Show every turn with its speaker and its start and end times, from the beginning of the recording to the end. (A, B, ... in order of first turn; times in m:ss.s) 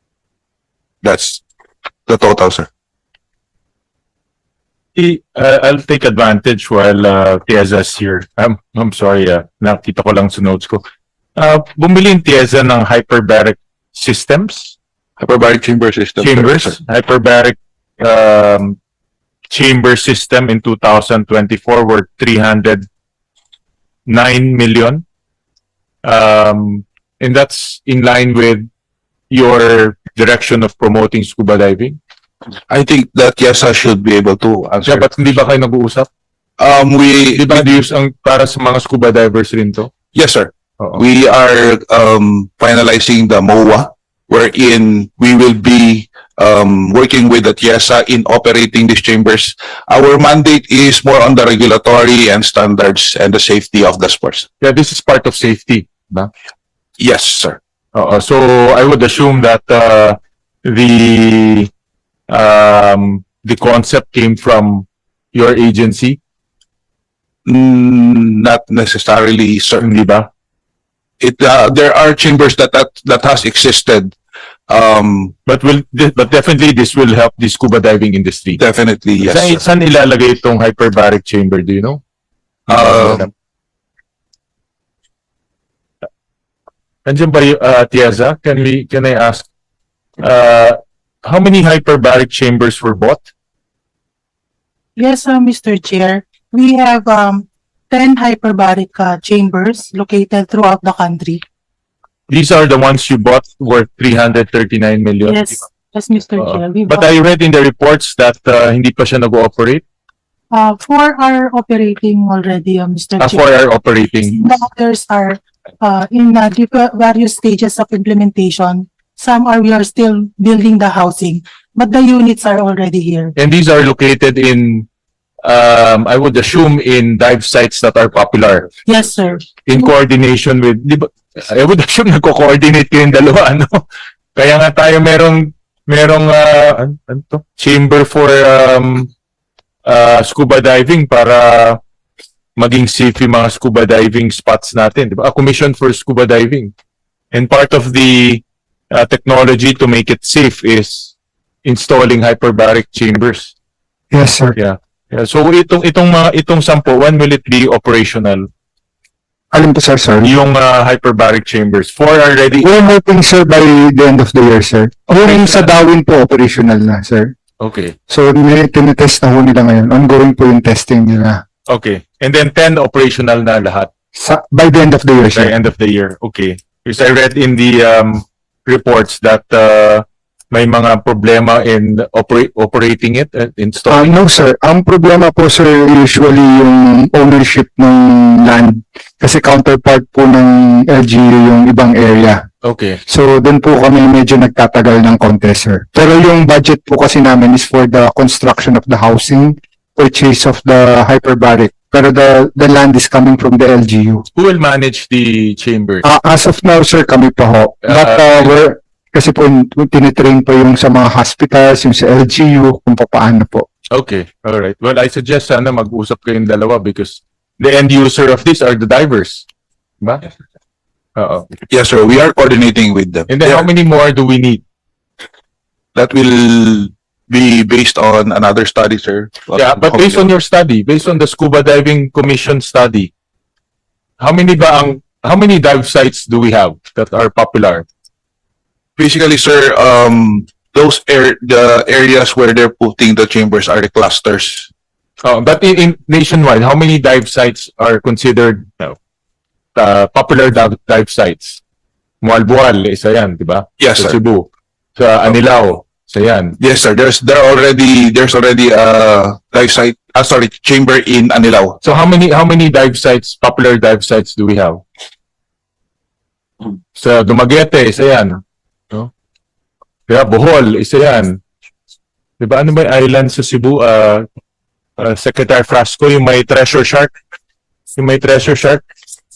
0:01.0-0:01.4 A
0:02.1-0:02.7 A
0:05.0-0:10.8 B
0:11.4-0:14.8 B
0:15.2-0:16.8 A
0:16.2-0:18.8 B
0:19.5-0:22.9 B
0:24.1-0:25.0 B
0:26.0-0:28.7 B
0:29.3-0:32.0 B
0:32.7-0:35.1 A
0:34.9-0:36.1 B
0:36.6-0:37.7 A
0:37.4-0:39.9 B
0:40.1-0:54.5 A
0:54.6-0:56.3 B
0:57.0-0:57.6 A
0:58.0-1:01.7 B
1:02.3-1:06.2 B
1:07.5-1:09.8 A
1:09.8-1:10.3 B
1:11.2-1:14.2 A
1:14.7-1:15.3 A
1:15.5-1:18.6 B
1:18.6-1:19.6 A
1:19.2-1:22.0 B
1:22.7-1:23.3 B
1:22.7-1:23.3 A
1:27.1-1:29.5 B
1:30.2-1:33.3 B
1:35.0-1:41.4 C
1:42.3-1:45.4 B
1:45.3-1:47.1 C
1:46.4-1:49.8 B
1:50.5-1:53.5 C
1:53.2-1:54.4 B
1:54.3-2:03.3 C
2:03.4-2:04.9 B
2:05.4-2:08.7 B
2:08.9-2:09.9 C
2:09.6-2:13.8 B
2:14.4-2:19.1 B
2:19.9-2:21.8 B
2:22.6-2:26.7 B
2:27.3-2:33.5 B
2:34.1-2:34.6 D
2:34.6-2:38.5 B
2:39.5-2:40.3 D
2:40.2-2:42.7 B
2:42.6-2:47.3 D
2:45.2-2:45.7 B
2:47.6-2:48.0 B
2:48.1-2:51.4 D
2:51.7-2:53.9 B
2:54.2-2:55.6 D
2:55.4-3:04.1 B
3:03.9-3:12.4 D
3:12.6-3:13.0 B
3:13.1-3:24.2 D
3:24.4-3:26.0 B
3:26.0-3:33.7 D
3:27.9-3:28.5 B
3:33.9-3:39.5 B
3:40.0-3:40.3 B
3:41.2-3:41.5 B
3:41.7-3:43.7 A
3:43.3-3:44.6 B
3:46.0-3:50.3 A
3:49.6-3:53.1 B
3:54.2-3:57.9 B
3:59.0-4:04.7 A
4:05.2-4:09.0 B
4:09.8-4:11.6 B
4:12.2-4:16.6 B
4:13.8-4:14.2 A
4:16.6-4:21.8 A
4:21.8-4:24.8 B
4:27.0-4:29.1 B
4:30.1-4:31.4 B
4:32.4-4:34.3 B
4:35.0-4:37.2 B
4:37.9-4:38.8 B